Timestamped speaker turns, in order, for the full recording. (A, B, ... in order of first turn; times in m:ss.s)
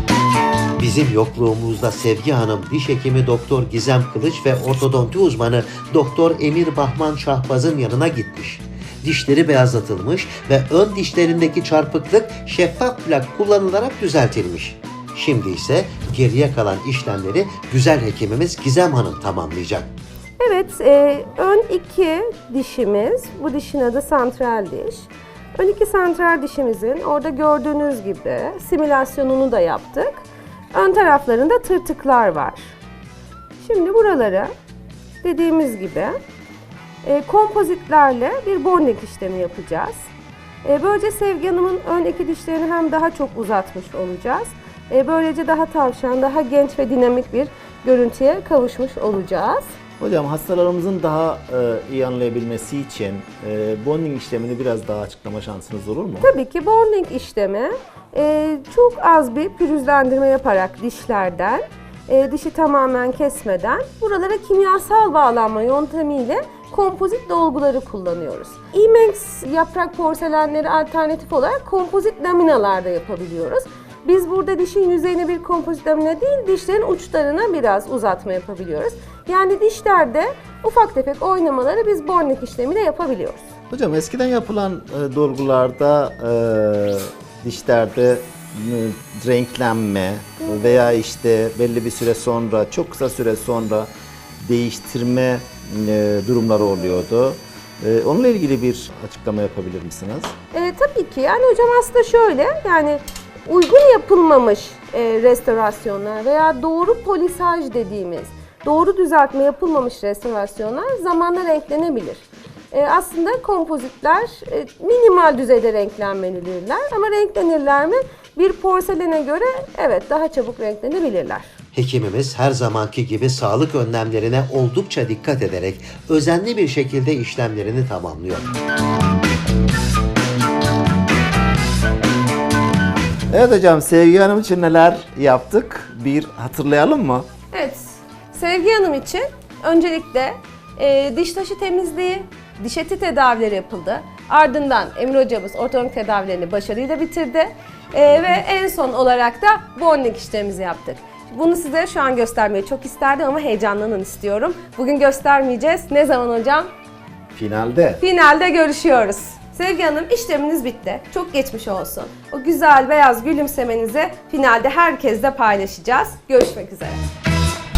0:00.8-0:19.9 A
0:20.4-0:32.8 B
0:33.6-0:34.5 B
0:35.2-0:36.2 B
0:37.0-0:40.1 B
0:40.6-0:49.7 B
0:50.0-0:56.3 C
0:56.2-1:23.4 B
1:23.7-1:40.3 C
1:40.5-2:01.5 B
2:01.7-2:08.5 A
2:13.3-2:17.3 C
2:17.5-2:36.7 B
2:37.3-2:38.0 C
2:38.0-2:47.0 B